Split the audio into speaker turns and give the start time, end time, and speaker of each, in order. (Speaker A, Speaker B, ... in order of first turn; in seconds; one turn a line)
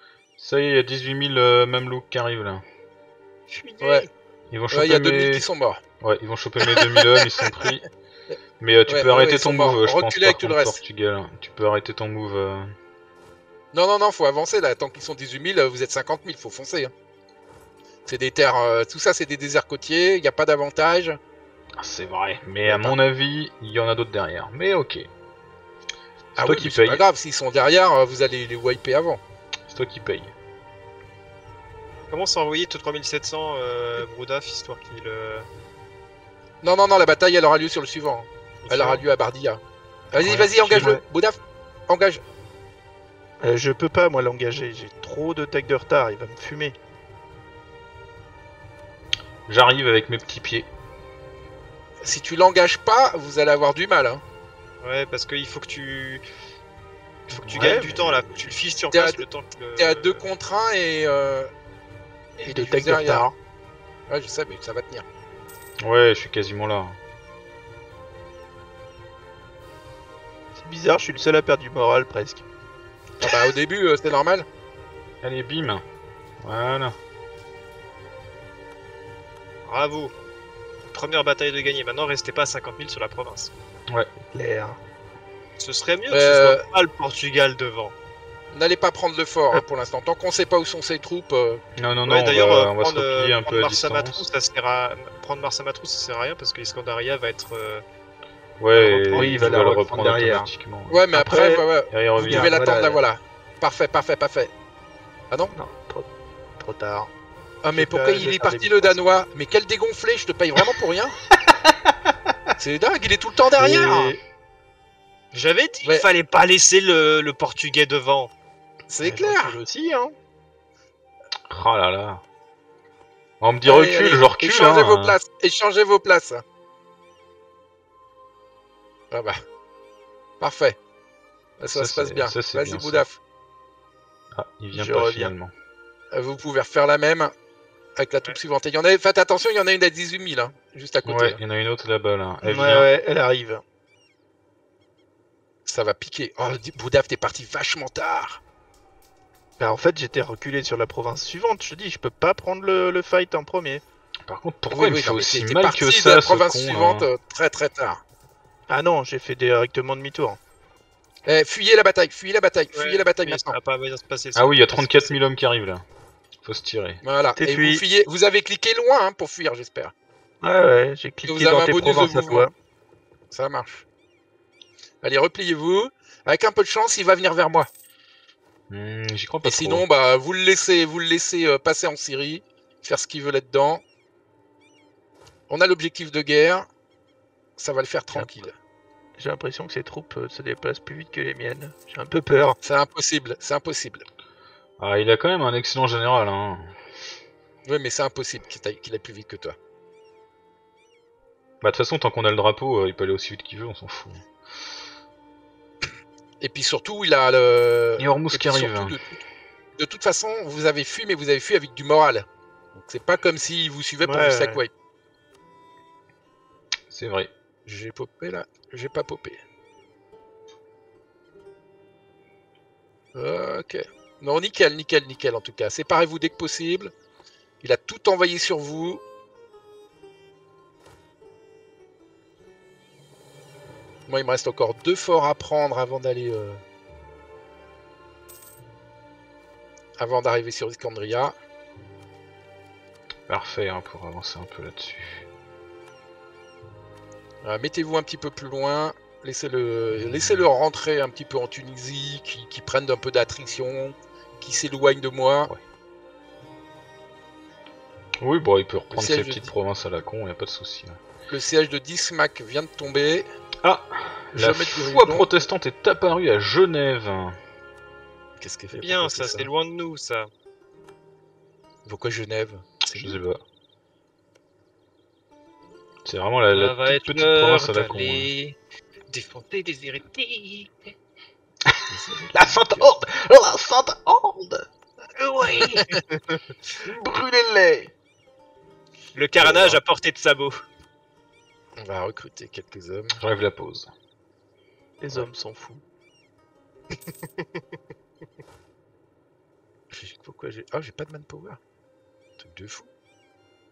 Speaker A: 0.4-2.6
Speaker B: 3.5-4.1
Speaker C: 3.8-4.1
Speaker A: 4.5-5.4
Speaker C: 4.7-5.8
Speaker A: 6.0-7.8
Speaker C: 6.6-7.5
Speaker A: 8.6-12.8
Speaker C: 8.9-10.8
Speaker C: 13.7-16.9
Speaker C: 18.1-21.2
Speaker A: 21.8-25.1
Speaker C: 22.6-23.0
Speaker A: 26.4-27.0
Speaker C: 26.4-29.2
Speaker A: 29.6-30.3
Speaker B: 32.1-35.5
Speaker C: 36.6-39.6
Speaker B: 38.6-39.0
Speaker C: 40.1-42.2
Speaker D: 40.2-41.0
Speaker D: 43.4-46.8
Speaker A: 49.5-50.7
Speaker C: 52.0-54.2
Speaker B: 54.8-56.2
Speaker B: 57.3-60.3
Speaker A: 57.4-58.0
Speaker D: 57.5-58.3
Speaker C: 58.9-59.2
Speaker C: 59.8-61.5
Speaker D: 62.4-63.3
Speaker C: 62.4-63.3
Speaker C: 64.1-65.0
Speaker A: 65.8-67.0
Speaker D: 70.6-72.4
Speaker C: 73.2-74.5
Speaker A: 75.2-75.8
Speaker A: 76.4-77.0
Speaker B: 79.6-80.1
Speaker B: 80.9-83.5
Speaker D: 84.2-84.8
Speaker B: 85.6-87.9
Speaker C: 86.1-86.6
Speaker C: 88.5-91.6
Speaker A: 91.8-94.2
Speaker B: 92.0-97.8
Speaker A: 98.6-101.0
Speaker B: 98.7-99.7
Speaker D: 99.1-100.5
Speaker C: 100.9-104.5
Speaker D: 101.1-103.0
Speaker A: 101.9-102.6
Speaker D: 105.5-107.1
Speaker C: 107.6-111.2
Speaker D: 107.7-109.0
Speaker C: 112.6-114.2
Speaker D: 113.6-114.2
Speaker B: 115.3-118.3
Speaker C: 118.9-119.6
Speaker D: 119.0-120.1
Speaker A: 121.5-122.2
Speaker A: 123.4-125.2
Speaker C: 123.6-126.4
Speaker C: 129.1-129.4
Speaker C: 130.4-130.8
Speaker C: 131.6-133.2
Speaker A: 131.7-133.0
Speaker A: 134.3-135.5
Speaker D: 134.7-135.3
Speaker C: 136.1-137.3
Speaker C: 137.9-141.4
Speaker A: 141.0-142.9
Speaker D: 142.4-143.6
Speaker C: 145.7-148.4
Speaker D: 149.6-153.8
Speaker A: 154.2-157.1
Speaker C: 154.7-158.0
Speaker D: 158.7-160.4
Speaker C: 161.2-163.6
Speaker B: 162.7-165.1
Speaker A: 164.3-165.8
Speaker A: 166.4-167.0
Speaker C: 167.0-169.9
Speaker D: 167.3-167.8
Speaker D: 170.4-172.5
Speaker C: 171.2-172.5
Speaker C: 173.3-173.8
Speaker C: 175.0-177.7
Speaker A: 178.7-179.8
Speaker C: 179.4-183.8
Speaker C: 185.5-186.7
Speaker C: 187.6-188.5
Speaker D: 189.2-192.6
Speaker C: 192.6-194.0
Speaker A: 194.8-196.8
Speaker C: 197.6-199.5
Speaker A: 201.6-204.2
Speaker C: 206.4-209.2
Speaker A: 208.0-208.9
Speaker C: 209.8-214.7
Speaker D: 214.0-214.6
Speaker A: 216.9-217.3
Speaker C: 217.7-219.4
Speaker C: 223.1-226.9
Speaker C: 227.6-229.0
Speaker C: 234.1-236.6
Speaker C: 240.0-241.3
Speaker A: 243.3-245.3
Speaker C: 247.4-255.5
Speaker A: 258.2-261.0
Speaker C: 258.9-259.5
Speaker C: 261.3-263.3
Speaker A: 263.6-267.4
Speaker C: 264.3-265.3
Speaker C: 268.4-269.5
Speaker B: 268.8-270.3
Speaker C: 271.9-273.2
Speaker A: 272.9-273.4
Speaker A: 276.0-278.3
Speaker B: 276.5-278.6
Speaker B: 279.1-280.9
Speaker C: 281.9-282.9
Speaker A: 282.3-284.7
Speaker B: 285.2-286.0
Speaker A: 286.8-287.9
Speaker B: 289.1-290.6
Speaker C: 289.4-289.8
Speaker C: 291.8-293.2
Speaker A: 293.2-293.9
Speaker D: 295.0-295.8
Speaker C: 299.9-301.6
Speaker C: 302.4-302.9